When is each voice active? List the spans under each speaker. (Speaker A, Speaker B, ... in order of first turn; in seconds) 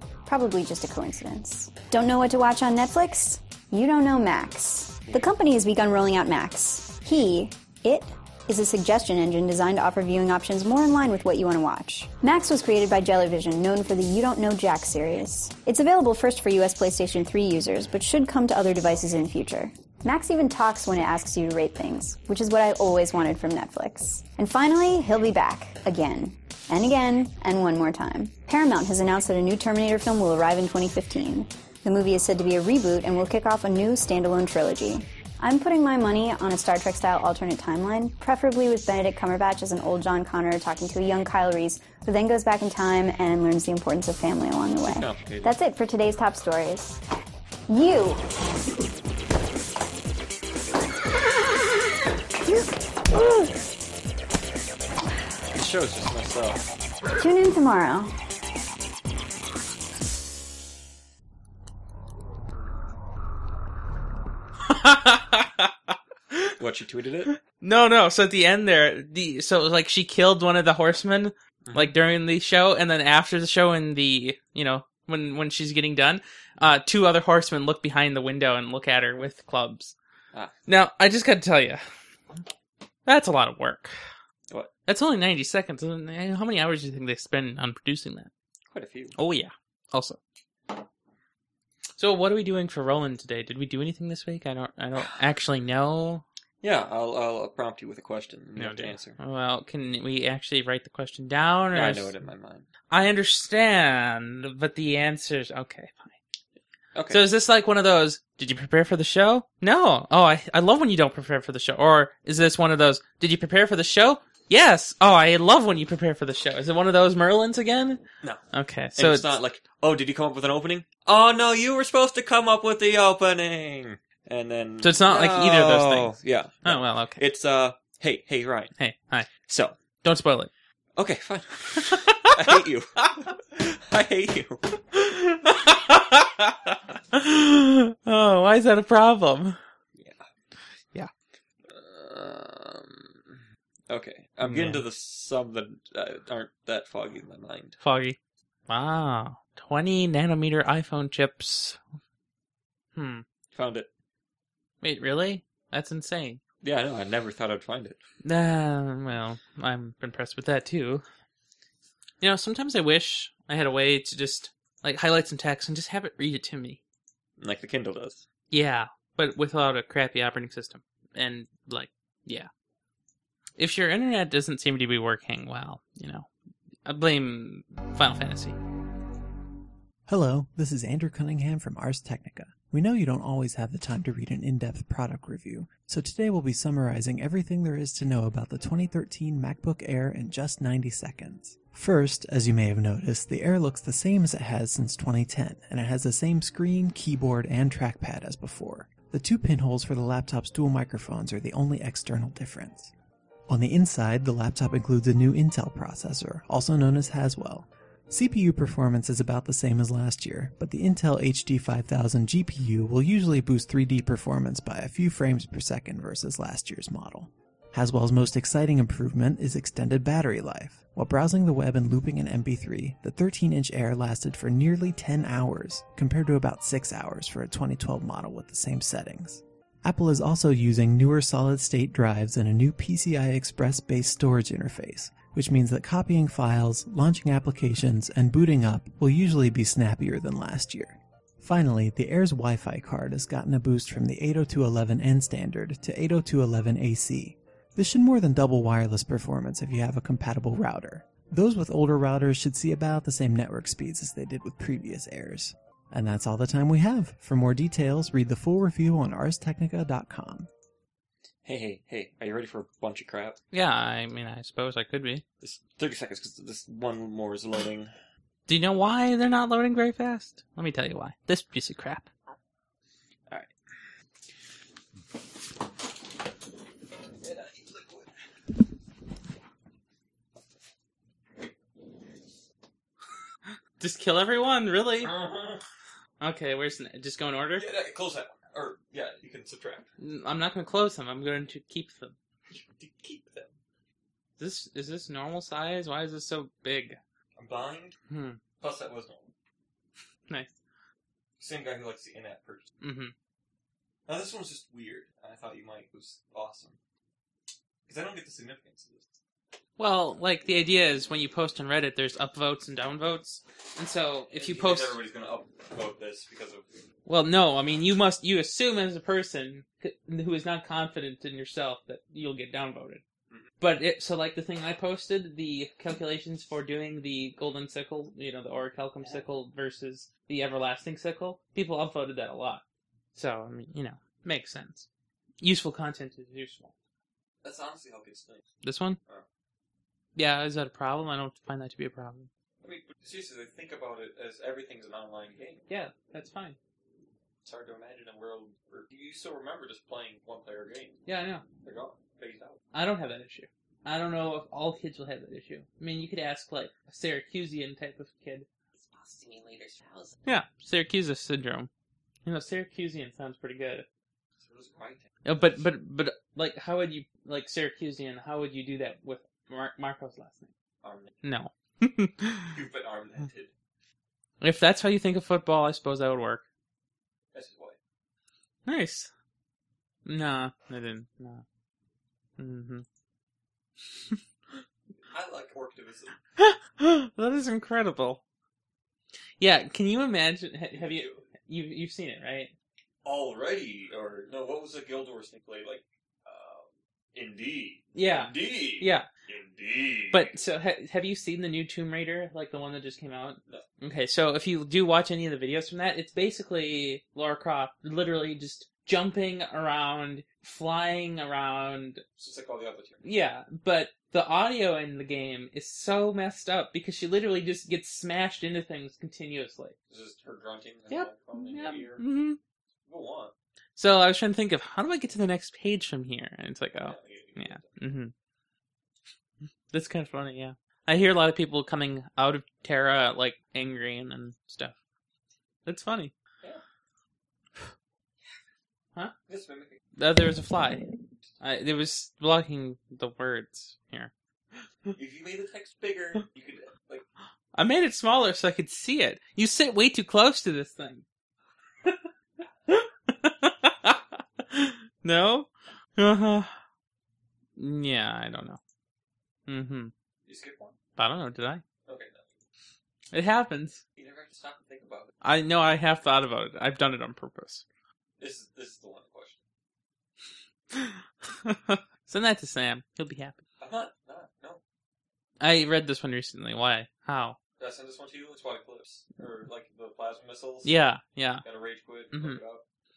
Speaker A: 0.2-47.0, 47.7-48.2, 52.4-53.5, 57.2-58.1
Speaker B: 44.8-45.5, 55.5-56.6, 66.6-67.3, 71.7-71.9, 88.7-89.2, 96.6-99.2, 101.7-102.7, 106.9-107.2, 119.0-128.7, 129.4-129.8, 130.9-134.6, 139.9-140.2, 141.7-147.8, 153.5-153.9, 156.6-158.0, 167.4-168.2, 261.4-263.4, 265.4-267.9, 273.3-273.8, 277.2-278.1, 285.0-285.6, 287.6-289.9, 292.5-293.5, 297.3-298.0, 298.6-299.3, 301.4-302.7, 304.1-306.8, 307.9-309.2, 314.3-316.7, 337.4-338.4, 342.6-345.6, 347.4-351.0, 351.6-352.6, 358.8-360.1, 364.4-365.1, 370.8-371.1, 372.5-373.5, 377.3-377.8, 385.1-386.2, 390.7-391.2, 393.0-400.3, 412.2-413.0, 419.9-422.0, 422.9-423.3, 426.8-427.8, 439.3-439.8, 444.9-447.0, 460.2-460.8, 461.8-462.3, 463.9-465.1, 468.2-469.4, 473.6-474.6, 477.6-480.7, 481.4-482.6
Speaker C: 64.7-66.5, 67.3-79.9, 80.7-81.8, 83.0-83.9, 84.9-88.3, 89.2-90.2, 92.0-96.2, 98.6-102.1, 102.9-106.1, 107.1-118.0, 118.5-119.3, 124.8-127.2, 128.8-129.3, 130.0-130.5, 131.8-132.3, 134.9-139.6, 144.4-144.8, 147.8-148.2, 148.7-151.8, 152.9-153.2, 154.8-156.4, 158.2-161.0, 162.2-166.8, 168.5-172.5, 173.6-176.3, 176.8-178.6, 263.5-265.2, 268.5-272.1, 283.8-285.1, 286.2-287.6, 290.0-292.1, 294.4-297.0, 298.1-298.4, 302.8-303.1, 309.8-315.0, 317.1-323.0, 323.6-332.6, 333.1-334.9, 335.4-336.7, 338.6-339.0, 340.1-342.3, 345.7-346.6, 351.1-351.4, 352.7-358.5, 360.2-361.7, 362.2-363.9, 365.2-370.5, 371.2-372.5, 374.4-376.4, 378.6-379.1, 380.1-381.4, 382.4-382.8, 386.4-388.2, 389.4-392.5, 397.9-399.1, 400.1-412.0, 413.0-419.7, 420.9-422.4, 423.8-428.1, 429.7-434.7, 435.6-436.1, 440.0-440.9, 441.4-444.1, 447.5-451.0, 452.7-456.5, 457.6-458.6, 459.5-459.9, 461.0-461.6, 463.1-463.8, 465.2-467.6, 470.7-473.4, 475.4-477.4, 480.6-481.4, 482.1-482.4
Speaker D: 180.1-202.9, 203.5-260.5